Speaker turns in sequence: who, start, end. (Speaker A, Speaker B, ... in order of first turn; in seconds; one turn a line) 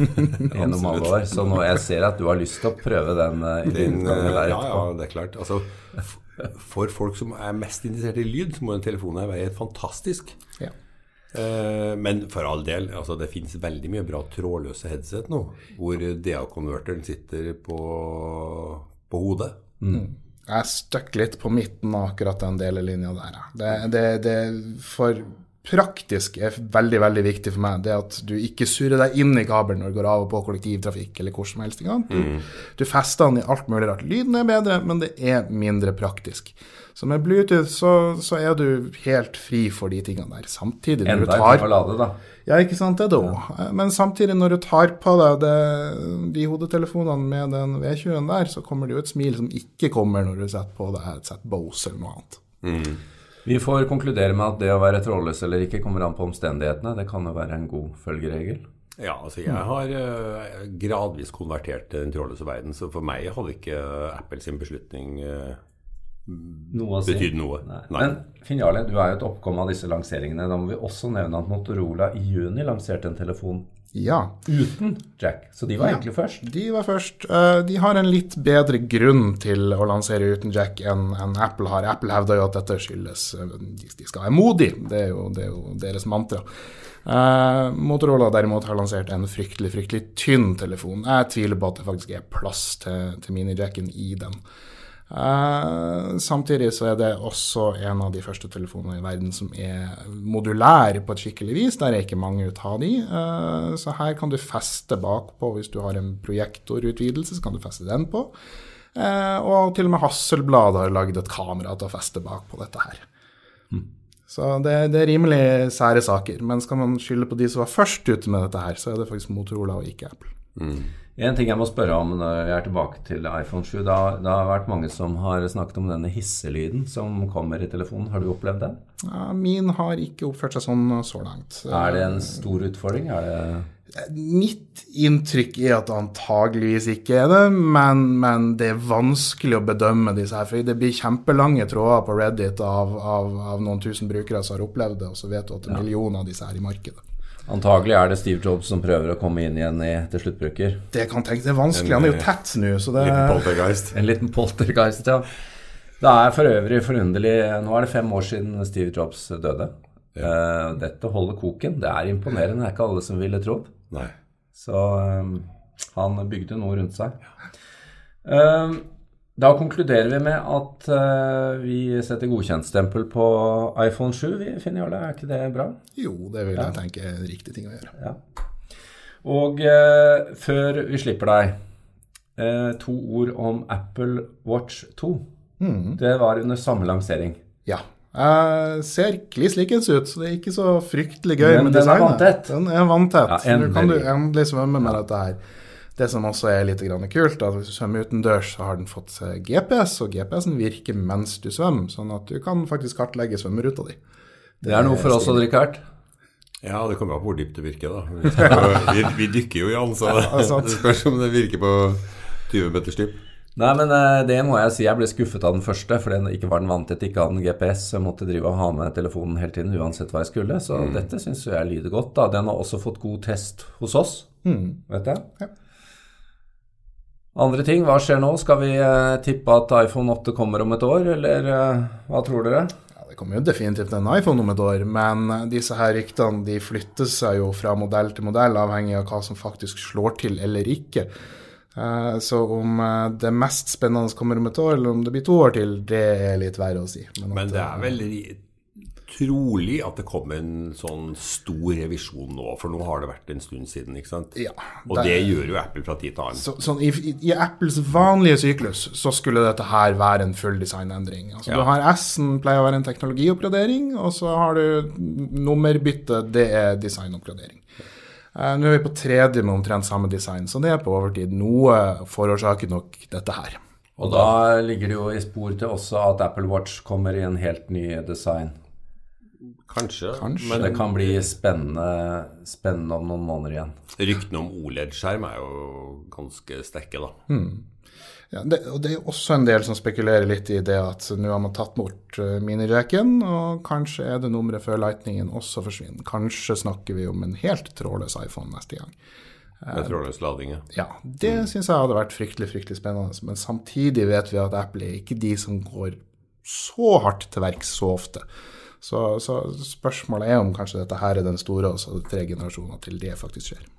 Speaker A: 0.5-4.9
Speaker B: 0.6-1.1
Speaker B: 3.6-10.3
Speaker B: 11.3-19.6
Speaker C: 19.9-41.7
Speaker B: 32.1-32.4
Speaker A: 41.0-42.2
Speaker C: 42.4-52.4
Speaker B: 52.6-53.0
Speaker A: 53.4-58.6
Speaker B: 59.0-65.6
Speaker B: 66.2-68.2
Speaker A: 66.7-73.6
Speaker C: 73.9-74.3
Speaker A: 74.5-76.4
Speaker C: 75.8-86.4
Speaker C: 87.0-94.4
Speaker C: 95.1-108.3
Speaker C: 108.9-113.0
Speaker C: 114.3-120.3
Speaker B: 120.6-120.9
Speaker A: 121.2-128.8
Speaker C: 129.0-132.5
Speaker A: 131.7-133.7
Speaker C: 133.9-147.0
Speaker A: 147.5-150.8
Speaker C: 150.9-153.6
Speaker B: 151.7-152.3
Speaker B: 153.0-153.9
Speaker A: 153.9-155.3
Speaker A: 156.0-163.7
Speaker A: 164.5-167.2
Speaker A: 168.2-168.8
Speaker A: 169.4-175.8
Speaker C: 175.9-177.9
Speaker A: 179.2-181.5
Speaker A: 182.3-185.2
Speaker C: 185.6-186.0
Speaker A: 186.0-187.4
Speaker C: 187.7-195.4
Speaker A: 191.4-192.5
Speaker A: 193.2-194.1
Speaker C: 195.9-204.0
Speaker C: 204.6-205.4
Speaker A: 204.6-205.8
Speaker B: 206.6-213.2
Speaker C: 210.1-210.8
Speaker A: 213.6-224.3
Speaker B: 220.7-221.1
Speaker C: 224.4-224.8
Speaker A: 224.9-225.2
Speaker A: 227.3-232.7
Speaker C: 232.9-241.1
Speaker C: 241.7-248.0
Speaker B: 247.3-248.4
Speaker B: 249.0-254.3
Speaker C: 254.3-255.3
Speaker B: 254.9-256.4
Speaker C: 256.4-267.6
Speaker C: 268.3-273.6
Speaker A: 274.0-278.5
Speaker B: 274.0-274.3
Speaker B: 279.7-281.3
Speaker C: 280.2-280.7
Speaker A: 280.5-283.8
Speaker B: 284.0-287.1
Speaker C: 287.3-287.6
Speaker C: 288.3-298.9
Speaker C: 299.6-300.0
Speaker B: 299.7-300.6
Speaker C: 300.7-308.2
Speaker C: 308.8-313.6